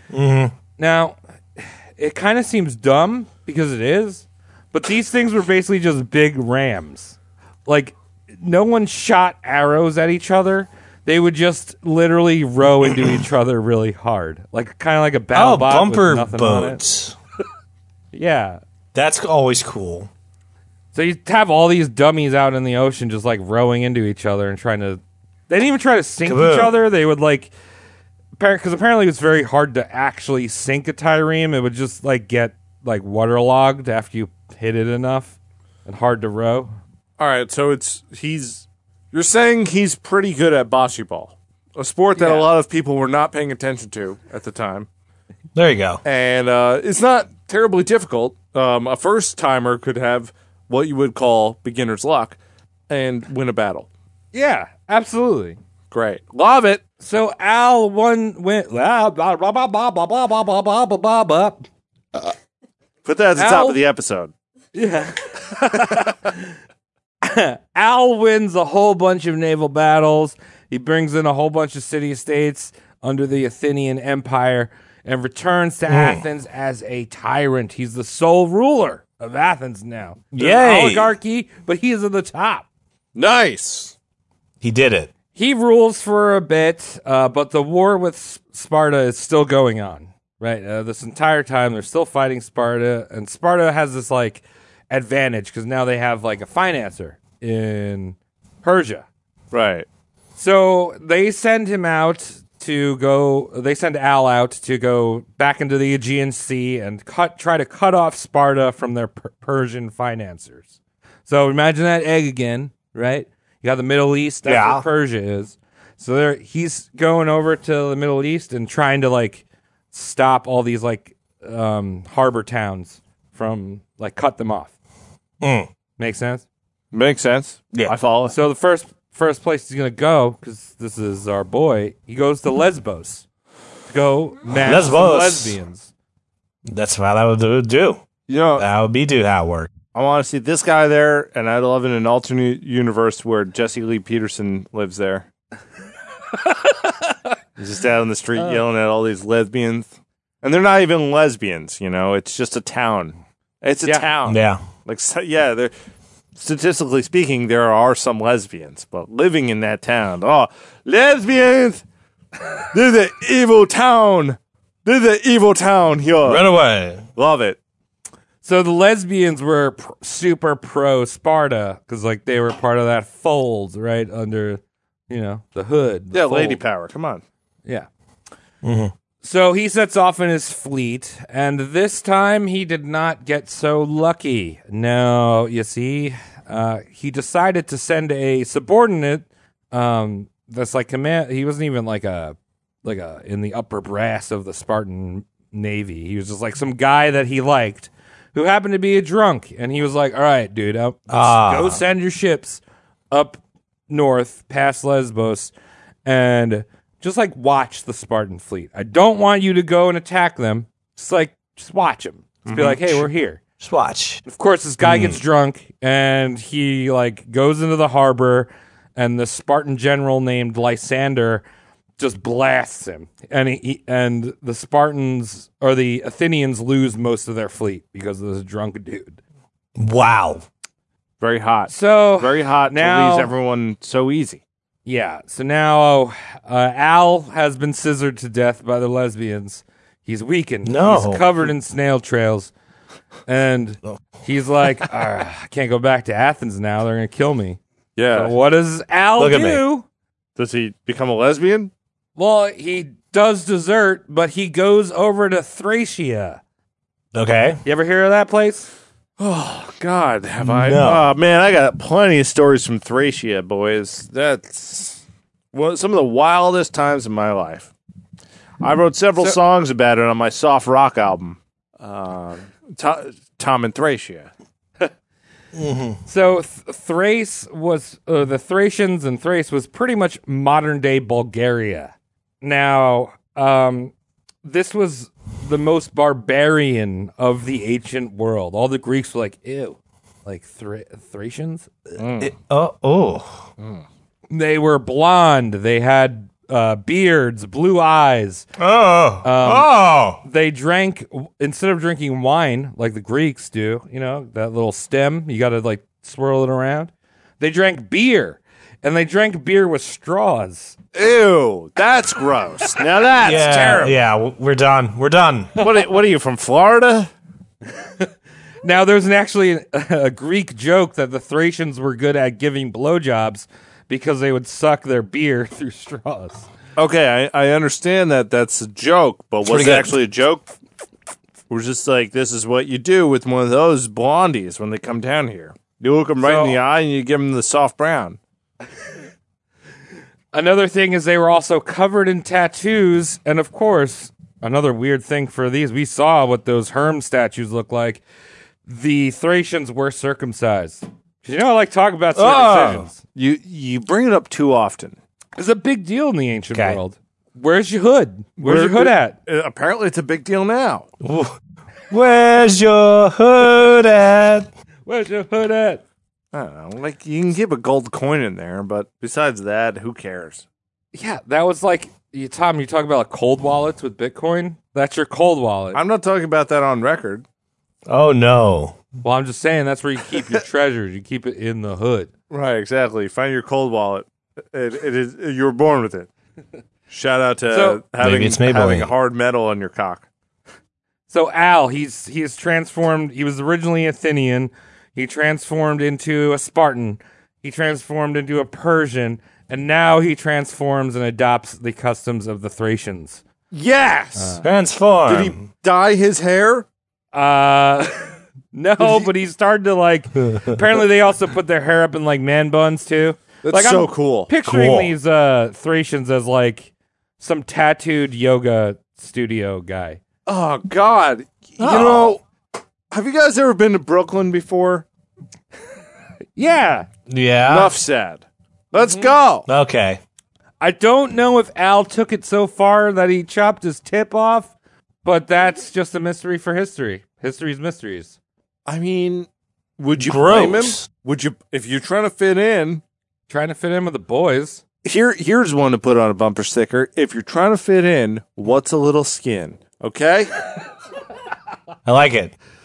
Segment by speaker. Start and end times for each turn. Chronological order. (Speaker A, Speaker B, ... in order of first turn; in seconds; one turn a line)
Speaker A: 0.1-0.5
Speaker B: 0.8-16.8
Speaker A: 15.3-17.2
Speaker B: 18.1-18.6
Speaker A: 18.9-20.1
Speaker B: 20.9-27.5
Speaker A: 26.2-26.7
Speaker B: 28.4-36.7
Speaker C: 37.2-44.9
Speaker B: 42.2-42.5
Speaker A: 45.5-46.0
Speaker C: 46.0-53.9
Speaker B: 54.3-55.6
Speaker C: 55.9-56.8
Speaker B: 57.0-62.3
Speaker C: 63.0-64.3
Speaker B: 63.4-63.8
Speaker B: 64.8-66.5
Speaker B: 67.2-82.7
Speaker A: 75.9-76.2
Speaker A: 80.4-81.1
Speaker C: 83.2-84.0
Speaker A: 84.6-85.1
Speaker B: 85.3-99.1
Speaker C: 99.5-99.9
Speaker B: 100.4-124.7
Speaker A: 114.5-114.8
Speaker A: 125.4-125.7
Speaker B: 126.0-126.5
Speaker C: 126.9-128.4
Speaker B: 128.3-133.2
Speaker B: 133.9-135.9
Speaker A: 134.5-135.6
Speaker A: 136.7-138.0
Speaker C: 138.3-138.7
Speaker A: 138.6-139.7
Speaker C: 139.9-145.3
Speaker C: 147.6-155.7
Speaker A: 154.2-154.6
Speaker C: 156.3-161.8
Speaker C: 162.7-166.5
Speaker A: 166.2-167.1
Speaker C: 167.2-167.6
Speaker B: 168.4-176.6
Speaker C: 176.1-177.2
Speaker A: 178.6-178.9
Speaker B: 179.2-205.5
Speaker A: 201.1-201.8
Speaker B: 206.1-213.4
Speaker C: 212.5-213.1
Speaker A: 213.6-214.2
Speaker B: 214.3-221.4
Speaker A: 214.8-215.2
Speaker B: 222.0-229.2
Speaker A: 229.8-230.4
Speaker C: 231.2-234.4
Speaker B: 231.7-233.3
Speaker B: 234.9-242.5
Speaker A: 240.7-241.3
Speaker B: 243.3-247.6
Speaker C: 248.0-248.3
Speaker B: 248.1-249.9
Speaker A: 249.2-249.6
Speaker C: 250.4-251.7
Speaker B: 252.2-256.4
Speaker A: 257.1-257.6
Speaker B: 257.6-258.7
Speaker C: 259.2-267.7
Speaker A: 260.4-261.1
Speaker C: 268.6-274.3
Speaker A: 275.5-276.0
Speaker B: 276.1-283.9
Speaker B: 284.4-291.7
Speaker C: 292.0-292.3
Speaker A: 292.2-293.5
Speaker C: 293.6-293.8
Speaker B: 294.3-298.5
Speaker A: 298.6-300.2
Speaker B: 299.2-310.8
Speaker C: 310.9-314.0
Speaker A: 313.2-315.5
Speaker C: 315.6-317.1
Speaker B: 317.8-318.1
Speaker B: 318.6-326.5
Speaker C: 326.8-330.5
Speaker A: 329.4-330.0
Speaker C: 331.5-338.2
Speaker B: 336.2-336.6
Speaker B: 340.3-348.0
Speaker B: 348.7-353.0
Speaker A: 352.2-352.9
Speaker C: 353.1-355.0
Speaker B: 355.4-359.2
Speaker A: 356.5-356.8
Speaker C: 358.4-360.9
Speaker A: 361.0-361.4
Speaker A: 361.9-364.5
Speaker B: 364.9-365.8
Speaker C: 366.3-370.4
Speaker B: 370.9-375.8
Speaker C: 375.7-377.2
Speaker A: 377.9-378.8
Speaker B: 379.0-382.1
Speaker C: 382.3-386.1
Speaker C: 386.9-390.1
Speaker B: 387.5-387.8
Speaker A: 388.0-388.9
Speaker B: 391.1-403.2
Speaker C: 403.5-404.4
Speaker B: 404.2-404.4
Speaker A: 404.4-405.4
Speaker C: 405.1-406.7
Speaker B: 407.1-420.0
Speaker C: 408.8-409.1
Speaker C: 413.4-414.3
Speaker A: 414.4-414.9
Speaker C: 420.3-422.2
Speaker A: 421.6-422.1
Speaker C: 422.9-424.9
Speaker B: 426.4-426.9
Speaker A: 427.1-427.7
Speaker C: 427.4-429.5
Speaker B: 428.7-429.1
Speaker A: 429.5-430.0
Speaker B: 430.6-434.5
Speaker B: 435.0-438.2
Speaker C: 438.7-439.3
Speaker C: 439.8-442.8
Speaker A: 440.0-440.9
Speaker B: 443.3-444.6
Speaker C: 444.8-450.4
Speaker A: 451.9-452.4